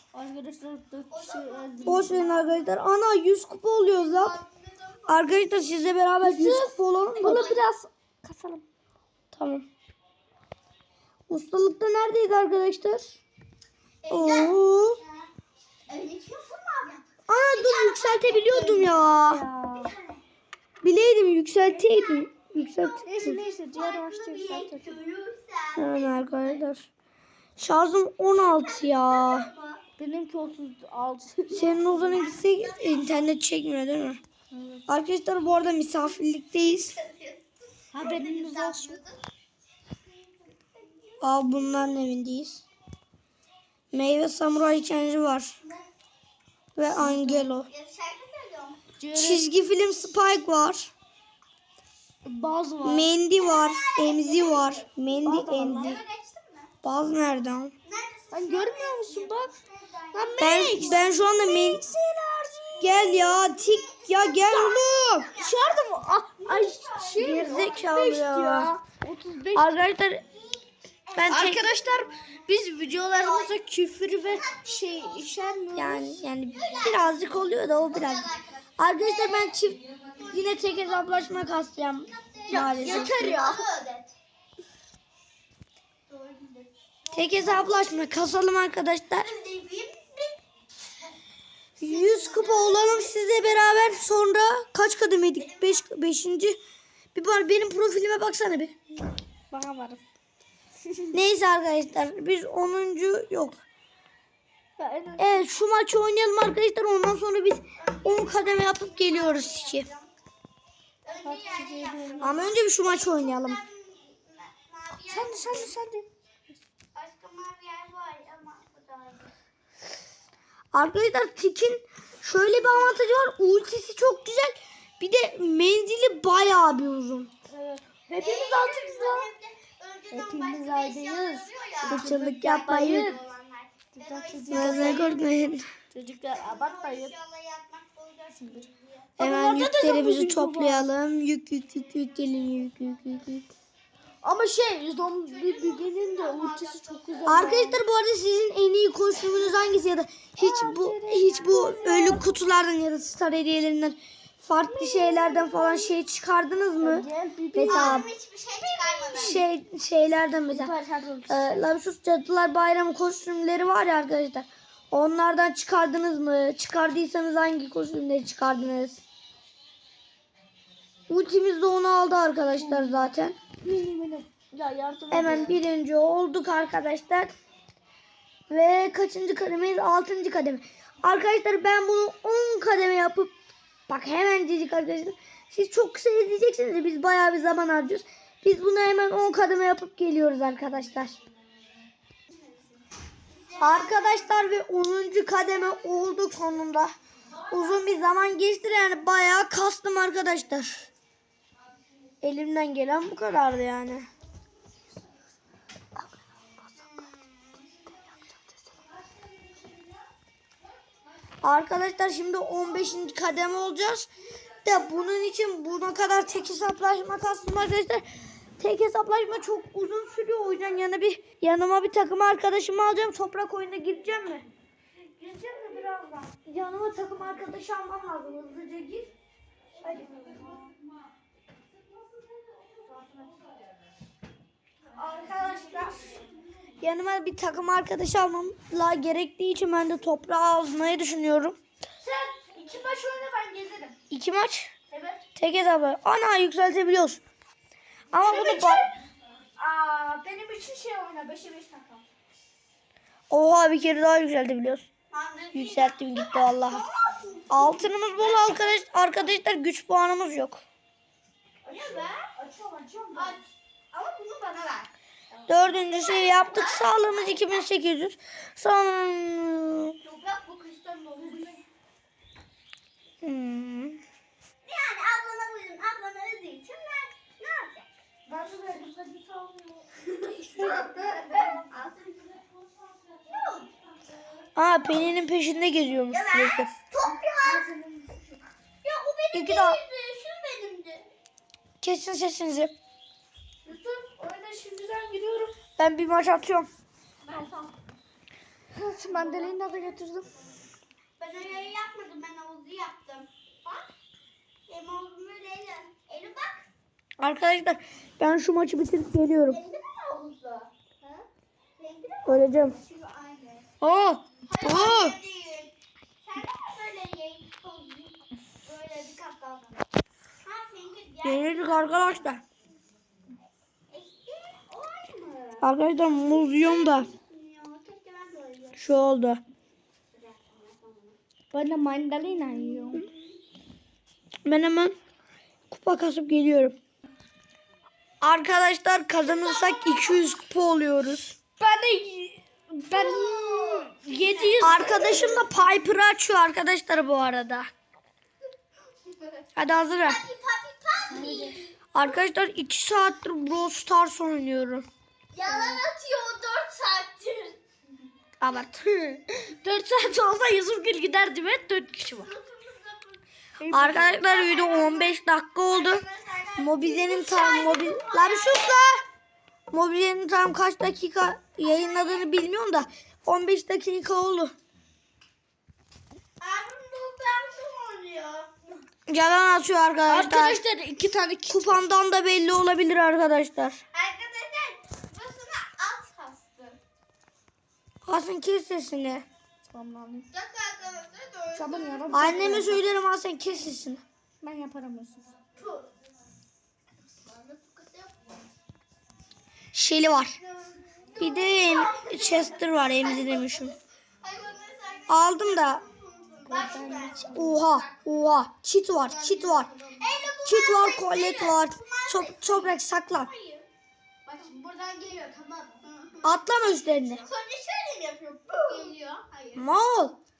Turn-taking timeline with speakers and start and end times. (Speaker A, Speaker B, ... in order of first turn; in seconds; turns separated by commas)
Speaker A: 0.1-2.2, Speaker B: 1.1-2.7, Speaker C: 1.8-4.3, Speaker B: 3.9-5.5, Speaker C: 5.1-7.5, Speaker A: 6.2-8.6, Speaker B: 7.2-7.6, Speaker C: 9.3-9.7, Speaker C: 11.3-13.2, Speaker B: 14.0-15.3, Speaker C: 14.1-15.0, Speaker B: 15.9-19.1, Speaker C: 17.3-19.4, Speaker A: 19.2-19.9, Speaker B: 19.7-20.2, Speaker C: 20.8-23.4, Speaker B: 21.8-26.6, Speaker A: 23.1-25.0, Speaker C: 25.8-26.9, Speaker C: 27.6-29.5, Speaker B: 28.3-29.8, Speaker A: 30.0-31.9, Speaker C: 31.5-34.2, Speaker B: 31.7-33.2, Speaker A: 34.5-34.9, Speaker C: 34.9-37.0, Speaker B: 37.0-37.4, Speaker A: 37.9-39.0, Speaker B: 37.9-39.2, Speaker B: 40.0-41.9, Speaker C: 41.2-42.6, Speaker C: 43.9-45.5, Speaker B: 45.6-45.9, Speaker C: 46.8-47.7, Speaker A: 47.0-47.5, Speaker B: 47.6-48.9, Speaker A: 49.0-49.5, Speaker C: 49.1-50.9, Speaker A: 52.2-53.1, Speaker C: 52.8-56.0, Speaker B: 53.3-56.7, Speaker A: 55.2-56.0, Speaker C: 56.8-57.7, Speaker B: 57.8-61.5, Speaker A: 58.3-59.5, Speaker A: 60.1-63.0, Speaker C: 60.4-61.8, Speaker C: 62.8-65.3, Speaker B: 62.8-68.0, Speaker A: 65.3-69.8, Speaker C: 67.2-68.7, Speaker C: 69.5-70.2, Speaker B: 70.3-73.6, Speaker C: 71.1-71.6, Speaker A: 71.3-76.2, Speaker B: 74.2-75.6, Speaker C: 75.7-78.2, Speaker B: 76.5-77.3, Speaker B: 77.9-81.3, Speaker C: 78.8-83.3, Speaker B: 82.0-84.1, Speaker A: 82.5-83.6, Speaker B: 86.1-88.2, Speaker C: 87.1-89.3, Speaker B: 89.2-90.4, Speaker B: 91.8-93.2, Speaker C: 91.8-96.6, Speaker B: 95.4-95.8, Speaker C: 97.1-98.7, Speaker A: 99.5-100.0, Speaker C: 101.1-103.6, Speaker A: 104.8-105.4, Speaker C: 105.2-109.9, Speaker B: 107.8-110.1, Speaker B: 111.0-115.8, Speaker A: 111.2-112.5, Speaker C: 112.2-113.6, Speaker A: 115.1-116.1, Speaker B: 116.9-119.3, Speaker C: 120.7-127.3, Speaker A: 127.5-129.3, Speaker B: 128.2-135.6, Speaker A: 130.1-133.2, Speaker C: 131.9-133.1, Speaker A: 133.9-135.1, Speaker C: 134.5-135.7, Speaker A: 135.9-137.1, Speaker B: 136.3-139.1, Speaker A: 138.3-140.9, Speaker C: 139.2-143.5, Speaker B: 142.1-143.0, Speaker A: 144.2-147.8, Speaker B: 145.2-147.6, Speaker C: 147.2-158.0, Speaker A: 150.4-152.3, Speaker A: 154.6-156.0, Speaker A: 156.8-158.1, Speaker B: 157.7-159.4, Speaker A: 158.9-159.4, Speaker C: 159.1-160.7, Speaker A: 160.5-161.6, Speaker C: 161.3-169.0, Speaker C: 171.1-173.4, Speaker A: 172.5-175.6, Speaker C: 175.1-177.3, Speaker C: 178.5-183.3, Speaker C: 183.9-191.2, Speaker B: 193.3-194.3, Speaker C: 193.6-196.9, Speaker C: 197.5-200.8, Speaker C: 202.2-204.1, Speaker B: 206.8-207.9, Speaker C: 211.4-214.1, Speaker C: 214.6-218.1, Speaker B: 215.9-216.3, Speaker C: 218.6-224.4, Speaker A: 225.2-226.3, Speaker C: 226.4-229.1, Speaker C: 229.8-230.3, Speaker A: 232.4-233.4, Speaker A: 234.9-236.2, Speaker C: 236.8-241.6, Speaker A: 242.0-243.9, Speaker C: 244.1-244.7, Speaker A: 244.9-245.2, Speaker C: 245.3-247.2, Speaker C: 248.1-248.9, Speaker A: 248.2-248.9, Speaker A: 249.6-252.0, Speaker C: 253.3-254.9, Speaker B: 255.1-258.8, Speaker C: 255.5-256.8, Speaker C: 257.5-260.6, Speaker A: 261.6-263.4, Speaker B: 261.7-262.2, Speaker B: 263.1-264.9, Speaker B: 265.4-267.6, Speaker C: 265.5-269.9, Speaker B: 270.0-271.6, Speaker A: 271.2-271.5, Speaker C: 273.2-274.0, Speaker B: 274.6-277.9, Speaker A: 278.2-281.6, Speaker B: 280.5-283.8, Speaker C: 284.6-286.7, Speaker B: 286.1-287.6, Speaker A: 287.4-288.4, Speaker B: 288.8-291.1, Speaker C: 289.3-289.8, Speaker C: 291.8-292.7, Speaker A: 293.6-295.5, Speaker C: 295.8-296.7, Speaker B: 297.2-297.7, Speaker A: 298.7-300.3, Speaker B: 299.1-299.5, Speaker B: 301.2-303.8, Speaker B: 304.7-306.6, Speaker C: 307.2-309.6, Speaker B: 309.4-313.7, Speaker C: 312.2-312.8, Speaker C: 313.8-315.1, Speaker B: 314.4-319.8, Speaker B: 320.4-322.1, Speaker C: 321.2-322.4, Speaker B: 323.9-328.8, Speaker C: 325.6-327.1, Speaker C: 328.8-329.4, Speaker B: 330.1-331.2, Speaker A: 331.5-333.0, Speaker B: 332.9-333.2, Speaker C: 334.4-334.9, Speaker C: 335.7-336.8, Speaker C: 338.2-341.4, Speaker B: 339.2-340.3, Speaker A: 341.6-345.4, Speaker B: 342.9-345.4, Speaker C: 344.6-347.7, Speaker C: 349.6-350.2, Speaker B: 350.0-352.1, Speaker A: 351.1-351.6, Speaker C: 351.9-354.9, Speaker B: 355.3-357.6, Speaker A: 355.4-355.8, Speaker C: 358.4-358.8, Speaker A: 359.0-362.3, Speaker B: 362.0-363.2, Speaker A: 363.6-364.2, Speaker C: 363.7-366.0, Speaker B: 364.1-365.2, Speaker B: 365.7-368.9, Speaker C: 366.6-369.0, Speaker C: 369.7-374.5, Speaker B: 371.6-372.3, Speaker B: 376.4-378.5, Speaker C: 379.1-380.6, Speaker A: 380.1-381.8, Speaker C: 381.5-383.8, Speaker B: 383.9-386.8, Speaker C: 388.0-389.2, Speaker A: 389.7-390.3, Speaker B: 390.3-392.7, Speaker A: 391.5-392.8, Speaker C: 392.1-394.0, Speaker A: 394.4-395.3, Speaker B: 395.6-395.9, Speaker B: 397.1-398.2, Speaker C: 399.7-400.4, Speaker B: 400.4-408.0, Speaker C: 401.2-403.7, Speaker C: 405.1-405.8, Speaker A: 406.4-407.6, Speaker C: 407.2-409.7, Speaker B: 409.0-413.7, Speaker C: 410.4-413.3, Speaker B: 414.2-419.7, Speaker C: 416.2-417.2, Speaker C: 419.5-420.2